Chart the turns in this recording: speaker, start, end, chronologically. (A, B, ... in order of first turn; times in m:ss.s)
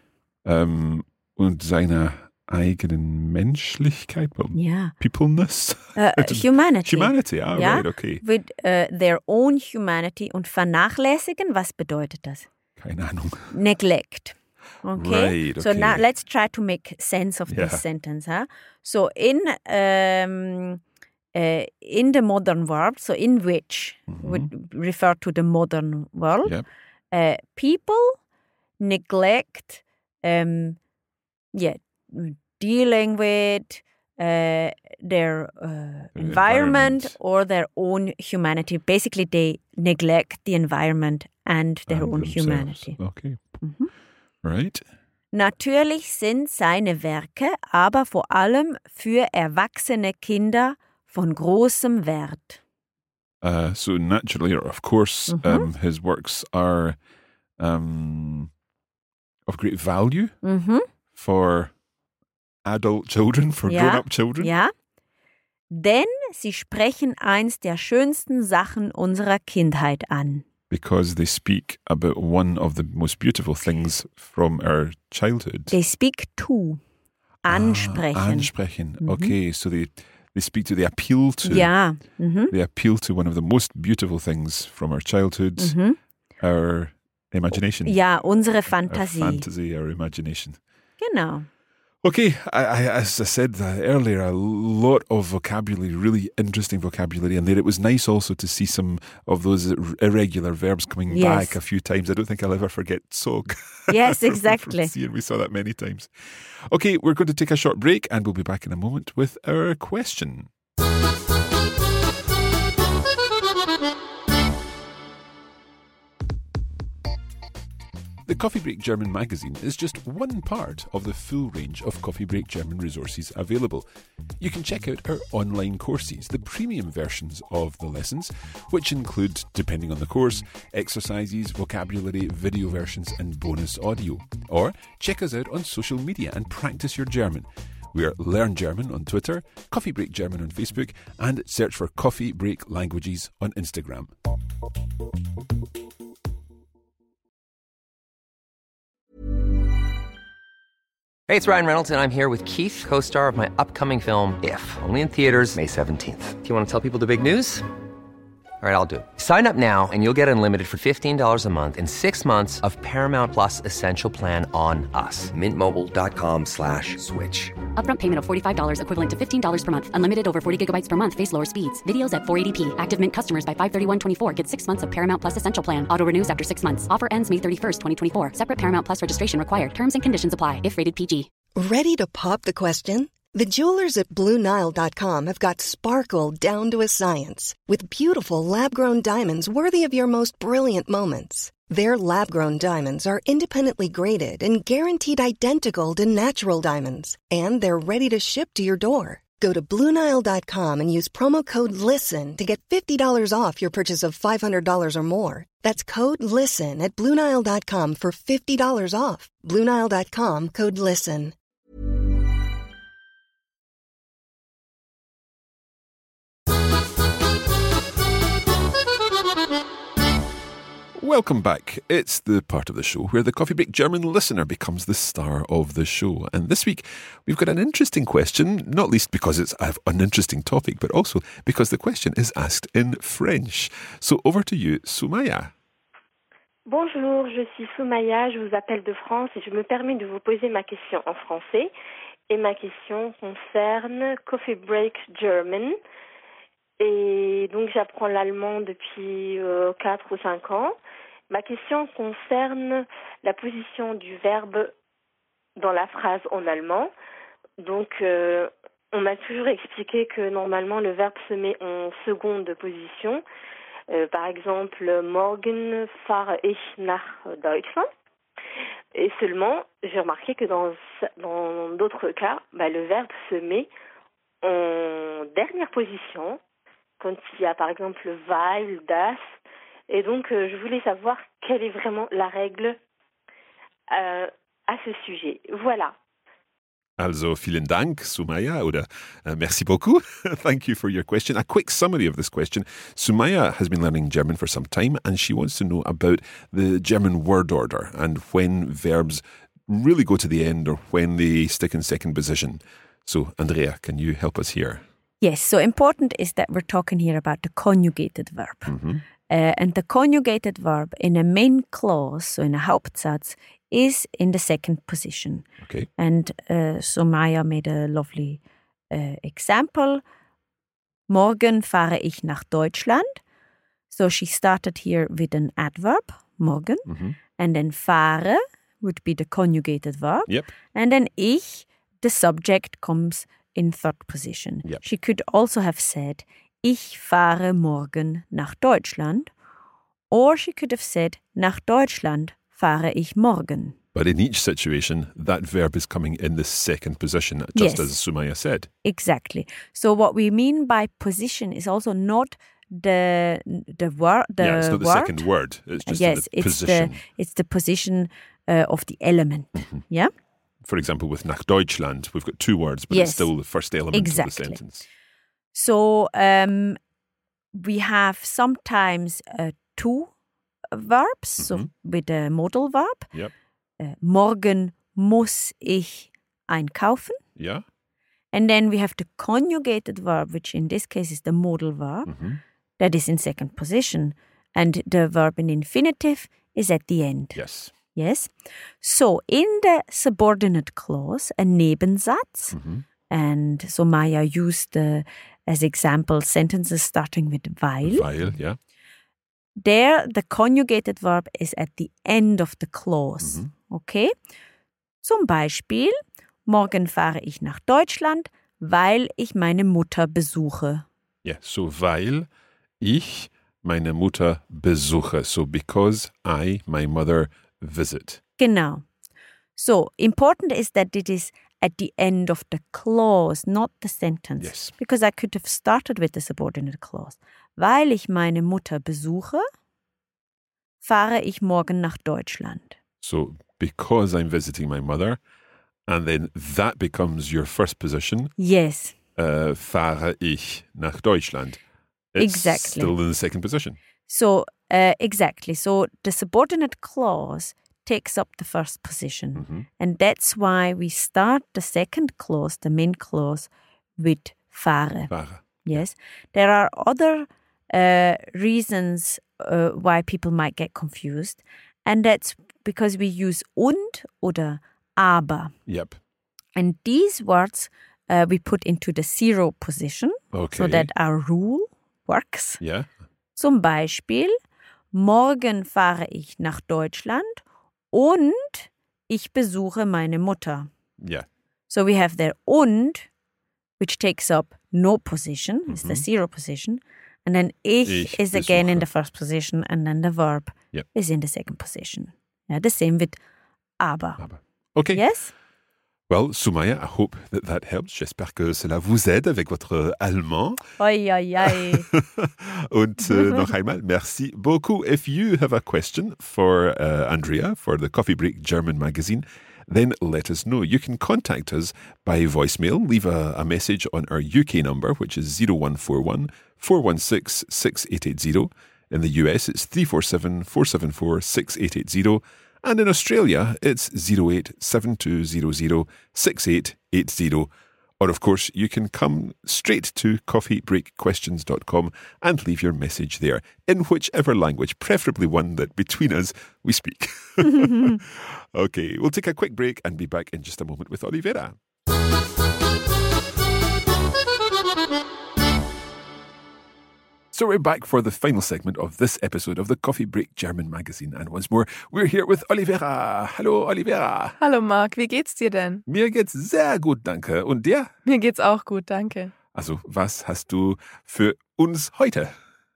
0:00.4-0:08.2 A
0:04.5-0:04.9 B
0:06.0-0:12.5 B
0:12.8-0:13.6 A
0:13.5-0:20.8 B
0:14.9-0:16.0 A
0:17.5-0:17.8 A
0:21.3-0:26.5 B
0:24.1-0:24.5 A
0:27.1-0:28.2 B
0:28.8-0:30.8 B
0:31.5-0:43.0 B
0:36.1-0:37.2 A
0:41.9-0:43.4 A
0:43.6-0:43.9 B
0:44.4-0:44.8 A
0:45.3-0:52.6 B
0:53.4-0:57.0 A
0:55.3-0:55.7 B
0:57.6-0:58.5 A
0:59.4-1:00.4 A
1:00.4-1:00.8 B
1:01.1-1:01.7 A
1:02.6-1:04.5 A
1:03.6-1:04.7 B
1:05.7-1:10.4 B
1:10.7-1:15.7 A
1:15.7-1:16.8 B
1:17.4-1:19.3 B
1:17.5-1:21.7 A
1:21.4-1:22.5 B
1:22.5-1:25.8 A
1:25.6-1:26.0 B
1:26.4-1:30.6 A
1:27.8-1:29.4 B
1:31.0-1:31.5 B
1:32.0-1:50.5 A
1:41.1-1:41.6 B
1:43.9-1:44.9 B
1:58.2-2:03.8 A
2:04.4-2:24.1 A
2:31.3-2:37.7 C
2:38.6-2:47.6 C
2:47.8-3:01.3 D
3:01.6-3:31.3 E
3:40.9-3:55.5 A
3:56.6-4:01.7 F
4:02.3-4:05.8 F
4:06.8-4:10.8 F
4:11.3-4:14.7 F
4:15.6-4:16.9 F
4:17.6-4:23.2 F
4:23.9-4:27.9 F
4:28.9-4:33.7 F
4:34.4-4:36.4 F
4:37.0-4:39.2 F
4:39.9-4:42.8 F
4:43.9-4:45.9 F
4:47.0-5:04.8 A
5:05.2-5:08.7 B
5:08.6-5:09.0 A
5:09.3-5:15.5 B
5:15.6-5:15.9 A
5:16.0-5:18.4 B
5:18.9-5:20.0 B
5:21.1-5:23.2 B
5:23.9-5:26.9 B
5:26.8-5:27.2 A
5:27.4-5:39.3 B
5:30.3-5:30.5 A
5:40.1-5:43.8 B
5:43.9-5:48.7 A
5:47.5-5:47.9 B
5:48.8-5:55.2 B
5:54.4-5:57.0 A
5:55.8-6:00.1 B
5:59.5-5:59.8 A
6:00.6-6:04.8 A
6:02.9-6:03.3 B
6:03.9-6:04.6 B
6:05.5-6:06.8 B
6:07.5-6:10.1 B
6:10.7-6:13.1 B
6:11.4-6:11.7 A
6:13.8-6:17.2 B
6:17.4-6:17.6 A
6:18.3-6:22.1 B
6:22.0-6:22.4 A
6:22.8-6:27.4 B
6:27.3-6:27.7 A
6:27.9-6:32.5 B
6:32.5-6:32.8 A
6:33.1-6:38.1 B
6:37.8-6:38.6 A
6:39.6-6:44.1 B
6:43.2-6:43.5 A
6:45.0-6:50.8 B
6:51.2-6:52.3 A
6:52.8-6:58.2 A
6:58.4-6:58.8 B
6:59.6-7:09.4 B
7:04.4-7:04.7 A
7:10.8-7:12.8 B
7:13.0-7:15.2 A
7:15.9-7:18.3 A
7:18.4-7:18.9 B
7:19.2-7:21.6 A
7:22.1-7:23.8 A
7:22.2-7:22.9 B
7:24.1-7:35.1 B
7:29.4-7:29.6 A
7:35.1-7:35.8 A
7:35.6-7:45.5 B
7:45.7-7:46.0 A
7:46.6-7:52.6 B
7:50.3-7:50.9 A
7:52.6-7:52.9 A
7:53.4-7:54.3 B
7:54.9-7:57.4 B
7:57.9-8:00.7 B
8:01.0-8:01.2 A
8:01.7-8:03.1 B
8:03.8-8:13.2 B
8:05.7-8:06.0 A
8:07.8-8:08.9 A
8:13.8-8:14.2 B
8:14.2-8:15.0 A
8:14.9-8:15.3 B
8:16.1-8:20.6 A
8:20.8-8:21.9 B
8:21.4-9:01.6 A
9:07.3-9:14.4 A
9:14.4-9:15.8 G
9:15.9-9:17.9 A
9:18.0-9:19.3 G
9:19.5-9:22.3 A